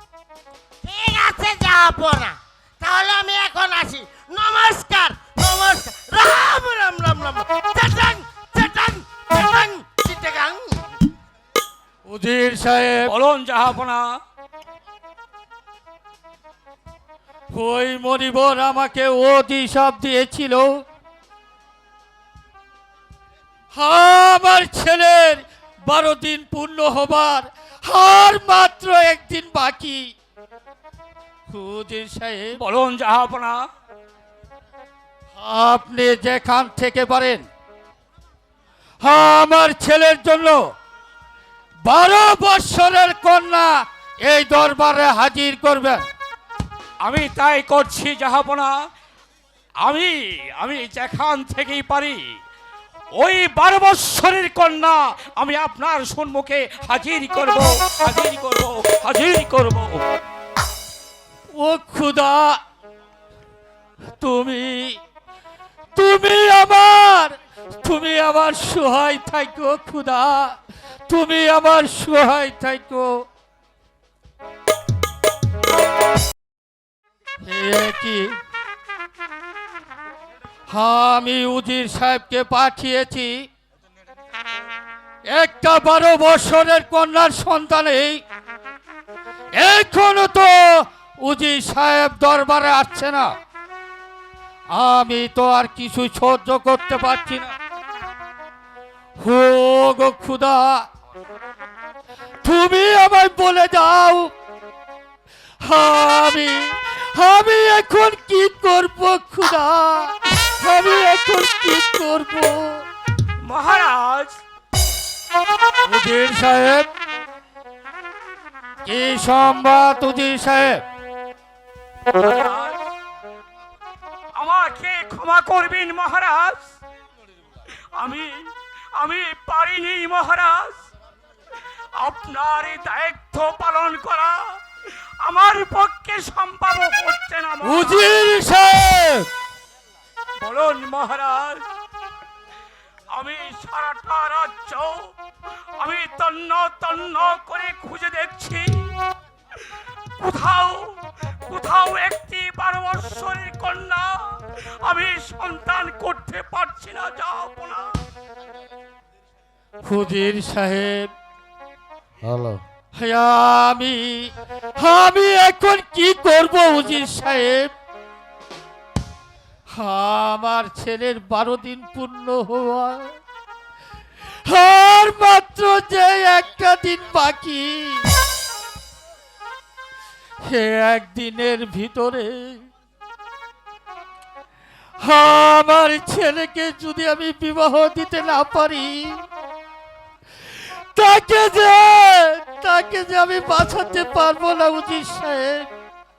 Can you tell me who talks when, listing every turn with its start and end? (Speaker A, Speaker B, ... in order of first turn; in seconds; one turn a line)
Speaker A: 0.8-10.9
Speaker B: 12.1-13.1
Speaker C: 13.1-14.1
Speaker B: 17.5-20.8
Speaker B: 23.7-30.1
Speaker B: 31.5-32.6
Speaker C: 32.6-33.6
Speaker B: 35.4-37.4
Speaker B: 39.0-40.6
Speaker B: 41.9-46.1
Speaker C: 47.0-48.7
Speaker C: 49.8-52.2
Speaker C: 53.2-60.0
Speaker B: 61.5-62.6
Speaker B: 64.2-65.0
Speaker B: 66.0-70.6
Speaker B: 71.1-73.2
Speaker B: 77.5-78.3
Speaker B: 80.7-83.4
Speaker B: 85.3-88.2
Speaker B: 89.6-93.3
Speaker B: 94.8-97.5
Speaker B: 99.2-100.8
Speaker B: 102.4-104.3
Speaker B: 105.7-112.8
Speaker C: 113.4-114.4
Speaker B: 115.8-116.9
Speaker B: 118.9-120.8
Speaker C: 122.1-122.8
Speaker C: 124.4-126.7
Speaker C: 128.0-130.8
Speaker C: 132.0-134.6
Speaker C: 135.2-138.1
Speaker B: 137.6-139.3
Speaker C: 140.4-141.7
Speaker C: 143.1-145.1
Speaker C: 145.8-148.9
Speaker C: 150.2-157.9
Speaker B: 159.8-161.1
Speaker B: 163.0-164.2
Speaker B: 164.8-167.7
Speaker B: 169.8-173.1
Speaker B: 174.5-178.0
Speaker B: 180.5-182.6
Speaker B: 185.1-189.2
Speaker B: 190.9-195.7